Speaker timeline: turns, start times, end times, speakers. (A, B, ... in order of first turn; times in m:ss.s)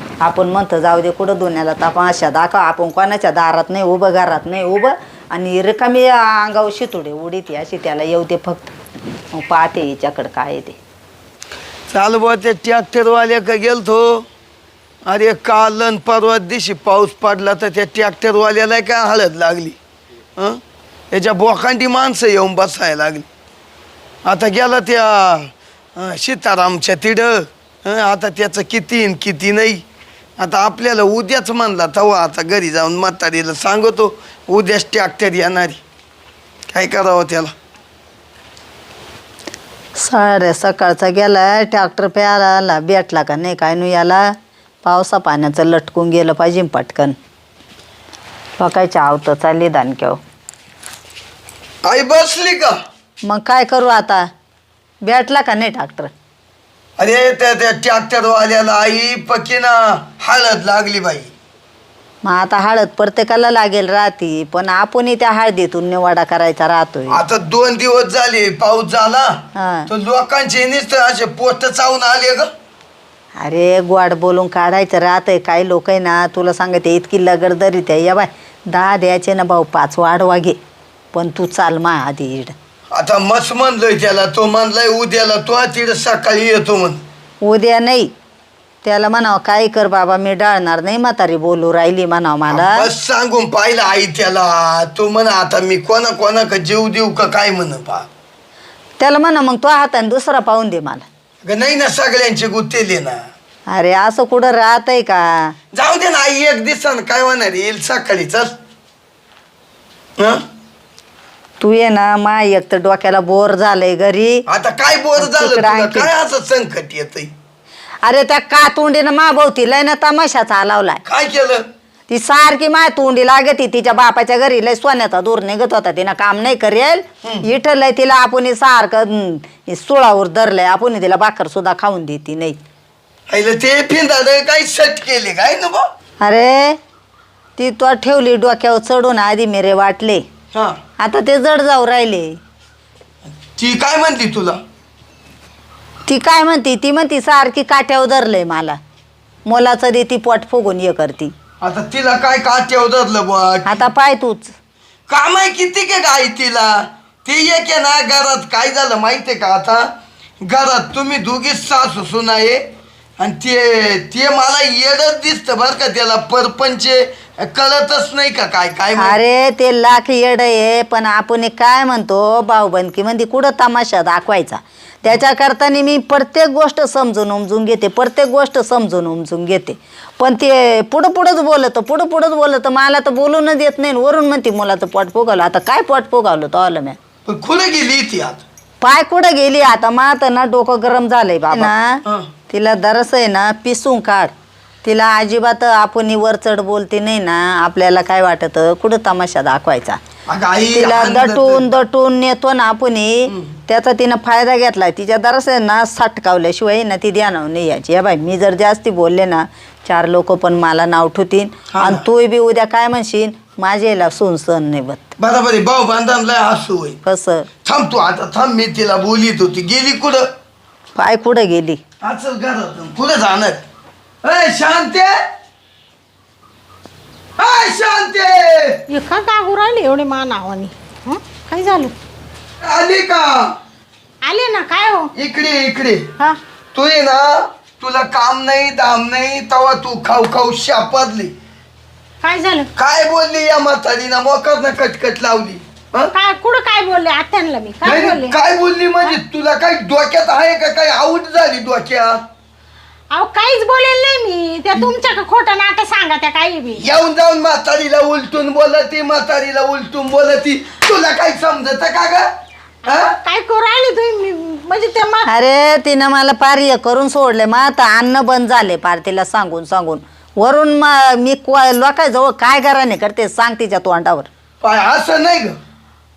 0:00.2-0:08.7 A
0:09.3-0:10.8 A
0:11.9-0:14.2 B
0:15.0-0:19.8 B
0:21.1-0:23.3 B
0:24.2-0:29.8 B
0:30.4-0:35.8 B
0:36.7-0:37.5 B
0:40.0-0:44.3 A
0:44.8-0:47.2 A
0:48.6-0:50.2 A
0:51.8-0:52.7 B
0:53.3-0:54.3 A
0:55.0-0:56.1 A
0:57.0-1:01.3 B
1:02.2-1:07.2 A
1:07.1-1:12.5 B
1:09.5-1:09.9 A
1:13.4-1:20.6 A
1:21.1-1:22.5 A
1:22.9-1:27.0 B
1:27.4-1:28.1 A
1:28.8-1:32.9 A
1:32.5-1:38.1 B
1:39.0-1:41.0 A
1:41.4-1:43.2 B
1:43.7-1:45.5 A
1:45.7-1:48.5 B
1:51.6-1:54.4 A
1:54.5-1:57.3 B
1:55.2-1:56.1 A
1:58.0-2:01.0 A
2:01.0-2:01.6 B
2:02.1-2:12.6 A
2:13.3-2:15.8 B
2:16.2-2:16.8 A
2:17.6-2:20.2 A
2:21.0-2:22.3 A
2:23.4-2:24.6 B
2:26.1-2:28.8 A
2:29.5-2:31.3 A
2:31.6-2:33.8 B
2:33.6-2:34.5 A
2:35.1-2:39.9 B
2:40.4-2:42.6 B
2:43.2-2:49.2 B
2:49.0-3:07.0 A
3:07.3-3:08.4 B
3:08.8-3:14.3 A
3:11.5-3:12.3 B
3:14.8-3:20.0 A
3:20.3-3:21.7 B
3:20.7-3:35.1 A
3:23.3-3:23.5 B
3:31.7-3:32.0 B
3:35.2-3:37.0 B
3:37.0-3:37.5 A
3:37.6-3:40.3 B
3:41.0-3:41.8 A
3:42.0-3:43.6 B
3:44.2-3:45.2 B
3:47.4-3:48.8 B
3:48.9-3:51.9 C
3:52.6-3:53.5 B
3:54.2-3:55.1 C
3:55.2-3:56.1 B
3:56.7-4:01.3 B
4:02.2-4:02.7 C
4:02.8-4:06.1 B
4:06.1-4:08.4 C
4:07.8-4:12.2 B
4:13.1-4:16.8 C
4:16.8-4:22.3 B
4:22.9-4:23.1 B
4:22.9-4:25.3 C
4:25.3-4:34.3 A
4:34.6-4:35.6 B